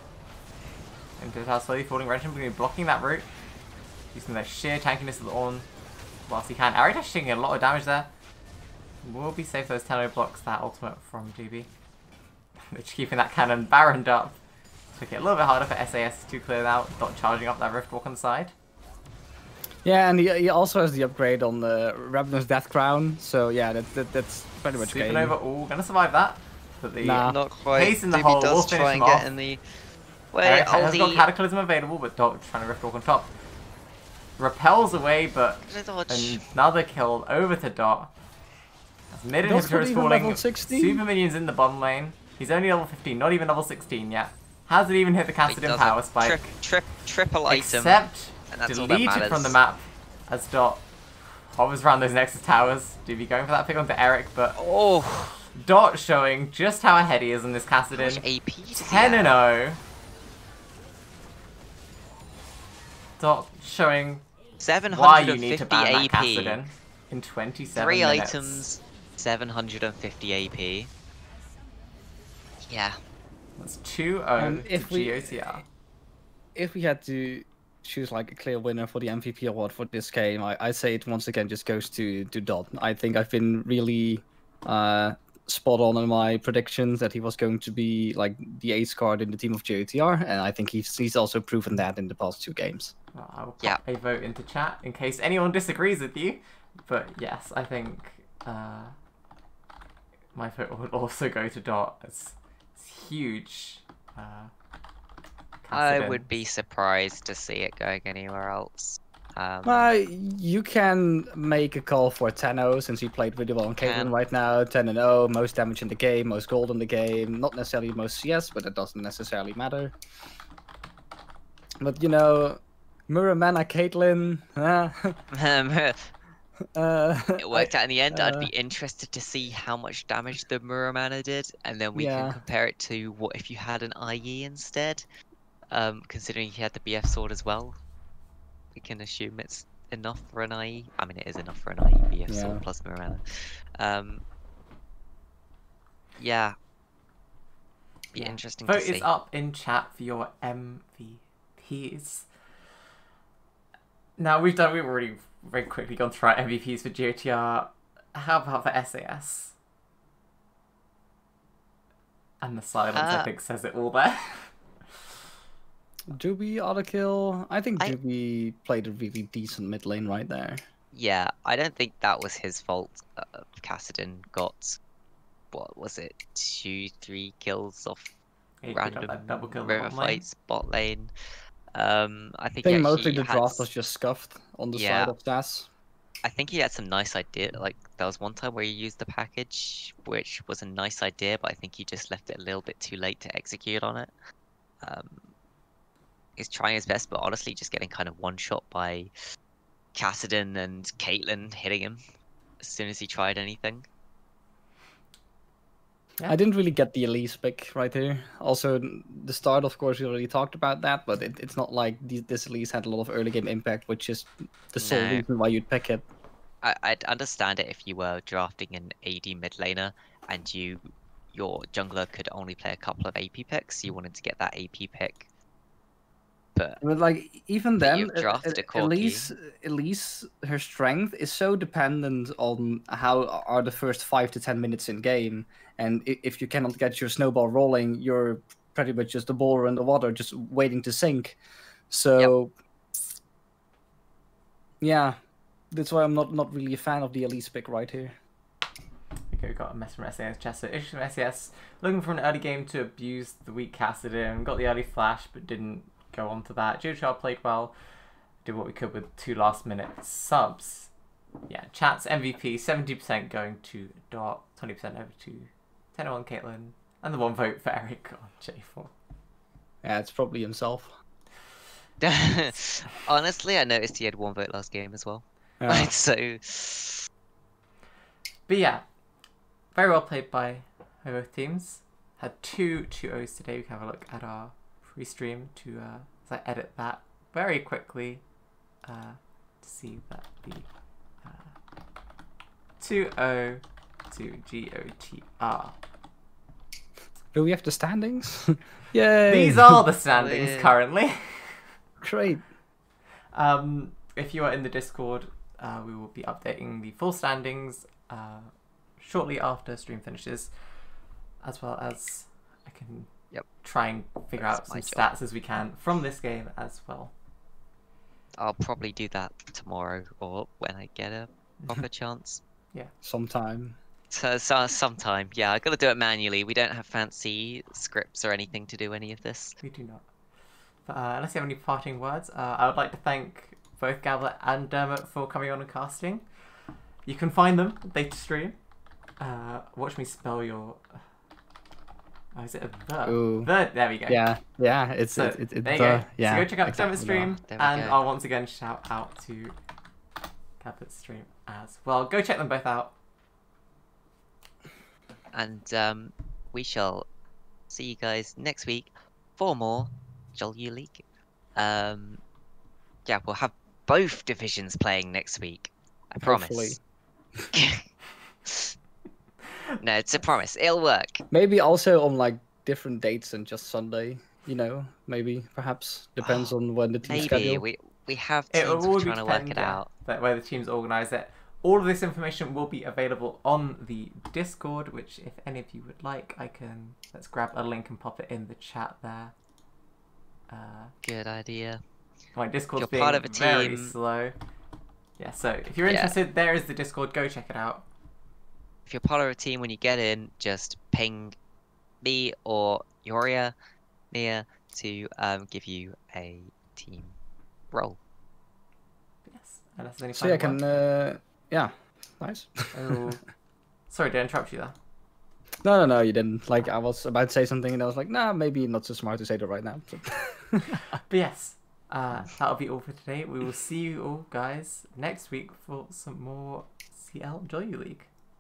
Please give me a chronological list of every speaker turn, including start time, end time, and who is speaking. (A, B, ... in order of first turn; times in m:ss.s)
0:01.2-0:03.3 A
0:04.1-0:05.7 A
0:06.3-0:08.1 A
0:09.0-0:11.7 A
0:12.7-0:14.4 A
0:15.0-0:18.5 A
0:19.8-0:25.4 B
0:24.8-0:29.3 A
0:27.0-0:27.4 B
0:27.2-0:29.6 C
0:30.3-0:31.3 C
0:30.4-0:33.3 A
0:34.4-0:38.1 A
0:35.7-0:36.4 C
0:39.1-0:46.5 A
0:39.4-0:41.0 B
0:45.5-0:49.6 C
0:47.5-0:50.8 A
0:51.5-0:54.6 A
0:54.6-0:55.4 C
0:55.6-0:59.8 A
0:57.9-0:59.4 C
1:03.2-1:04.2 A
1:04.6-1:06.6 C
1:04.9-1:08.6 A
1:07.7-1:10.9 C
1:12.7-1:13.0 C
1:13.6-1:15.6 A
1:14.4-1:15.6 B
1:16.6-1:32.9 B
1:33.1-1:39.0 A
1:40.4-1:44.5 A
1:45.6-1:46.4 A
1:45.7-1:49.9 C
1:49.6-1:59.9 B
1:53.8-1:54.2 C
2:01.8-2:05.2 B
2:05.3-2:06.1 C
2:06.7-2:08.5 B
2:07.4-2:15.0 C
2:12.0-2:12.4 B
2:15.7-2:17.8 C
2:18.8-2:24.2 C
2:22.3-2:22.6 B
2:26.2-2:26.6 C
2:28.1-2:29.1 C
2:28.2-2:32.3 A
2:34.2-2:39.6 A
2:42.4-2:44.5 A
2:43.0-2:43.3 C
2:46.1-2:50.6 B
2:50.9-2:54.8 C
2:55.5-2:58.2 C
2:58.6-3:00.2 A
2:58.7-3:01.1 C
3:01.7-3:03.7 C
3:02.6-3:05.7 B
3:04.7-3:05.1 C
3:06.2-3:14.1 C
3:14.8-3:15.3 C
3:16.4-3:19.1 C
3:20.0-3:22.0 C
3:22.6-3:23.9 C
3:26.3-3:36.1 B
3:34.8-3:35.2 C
3:36.6-3:45.3 C
3:46.6-3:46.8 C
3:46.8-4:01.4 B
3:47.8-3:49.3 C
4:01.9-4:02.5 B
4:04.8-4:05.2 B
4:05.7-4:08.1 B
4:09.3-4:17.7 A
4:18.4-4:20.9 A
4:21.5-4:28.9 A
4:29.8-4:30.9 B
4:32.0-4:37.0 C
4:35.6-4:35.9 B
4:38.5-4:38.8 A
4:39.8-4:48.2 A
4:48.8-4:50.7 A
4:51.2-4:51.5 A
4:52.8-4:55.8 A
4:57.3-4:59.8 B
4:59.3-5:01.6 A
5:00.1-5:00.7 C
5:02.0-5:02.5 B
5:03.3-5:10.5 A
5:11.4-5:13.1 A
5:13.6-5:17.1 A
5:14.4-5:15.0 C
5:18.4-5:22.4 C
5:23.0-5:23.8 B
5:24.1-5:29.6 C
5:29.6-5:30.0 A
5:30.9-5:36.2 A
5:37.1-5:38.6 A
5:39.2-5:41.0 A
5:42.3-5:44.2 A
5:43.0-5:43.5 B
5:44.1-5:47.4 B
5:45.1-5:49.6 A
5:47.5-5:48.0 C
5:50.6-5:52.9 A
5:55.3-5:57.1 C
5:57.7-6:01.0 C
6:01.6-6:02.2 C
6:03.1-6:06.8 C
6:06.2-6:06.8 B
6:07.5-6:07.9 C
6:08.5-6:08.8 C
6:09.8-6:11.2 C
6:11.3-6:17.6 B
6:16.2-6:19.9 C
6:18.5-6:29.3 A
6:30.5-6:30.9 A
6:31.0-6:31.8 C
6:32.4-6:34.4 A
6:32.8-6:34.0 C
6:35.2-6:37.9 A
6:35.9-6:36.2 C
6:38.9-6:41.4 C
6:42.0-6:43.5 C
6:44.1-6:47.2 C
6:47.7-6:48.0 C
6:49.3-6:50.6 A
6:50.2-6:53.0 B
6:52.7-6:53.2 A
6:53.9-6:54.8 A
6:55.6-7:00.8 B
7:01.0-7:08.1 A